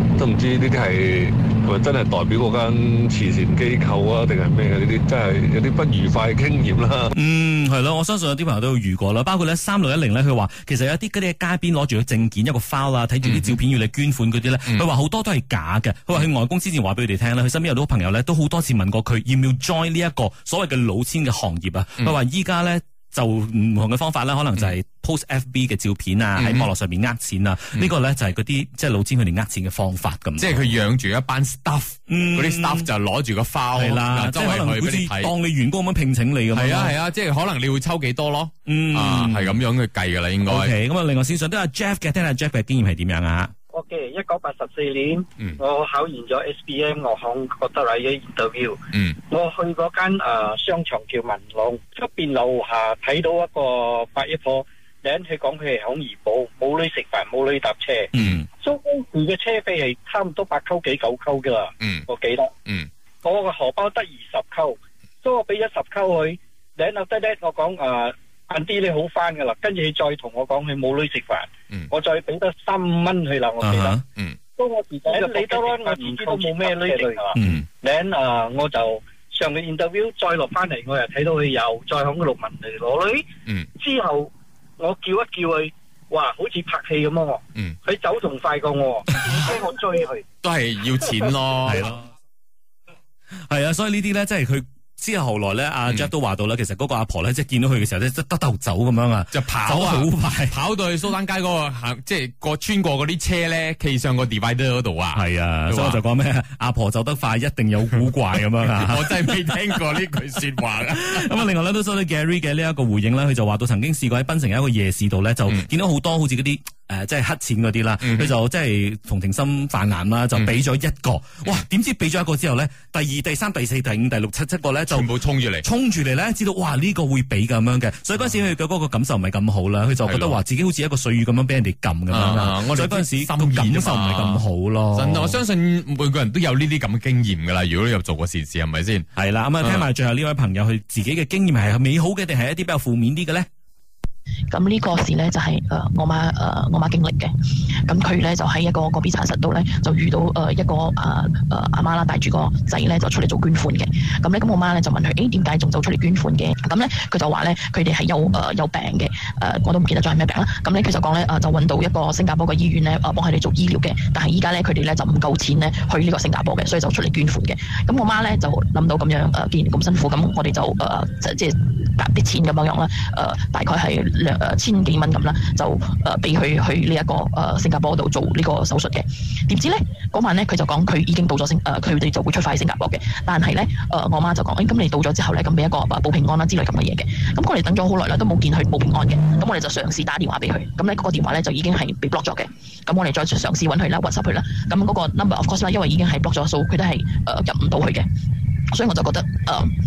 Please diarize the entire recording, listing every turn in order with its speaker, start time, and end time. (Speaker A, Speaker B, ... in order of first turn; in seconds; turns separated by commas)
Speaker A: 0.2-7.1, Speaker B: 7.2-30.6, Speaker C: 13.2-13.6, Speaker C: 26.4-26.7, Speaker C: 30.4-35.3, Speaker B: 32.1-32.9, Speaker B: 33.8-37.0, Speaker C: 36.5-40.7, Speaker B: 38.7-39.6, Speaker B: 40.5-43.5, Speaker D: 43.7-58.1, Speaker B: 58.1-58.5, Speaker D: 58.6-62.5, Speaker C: 61.8-62.1, Speaker D: 63.2-74.0, Speaker B: 73.6-74.0, Speaker D: 74.6-83.2, Speaker B: 77.3-77.7, Speaker D: 83.8-90.2, Speaker C: 90.4-91.8, Speaker B: 91.7-92.1, Speaker B: 93.3-100.6, Speaker C: 99.3-106.0, Speaker B: 105.1-109.6, Speaker C: 108.3-111.5, Speaker B: 111.0-125.1, Speaker C: 118.0-118.3, Speaker C: 120.3-120.6, Speaker C: 124.9-125.7, Speaker B: 125.6-135.4, Speaker C: 130.0-130.4, Speaker C: 132.1-139.1, Speaker B: 139.2-143.5, Speaker C: 139.6-139.9, Speaker E: 144.5-147.3, Speaker E: 147.9-198.1, Speaker E: 198.7-199.7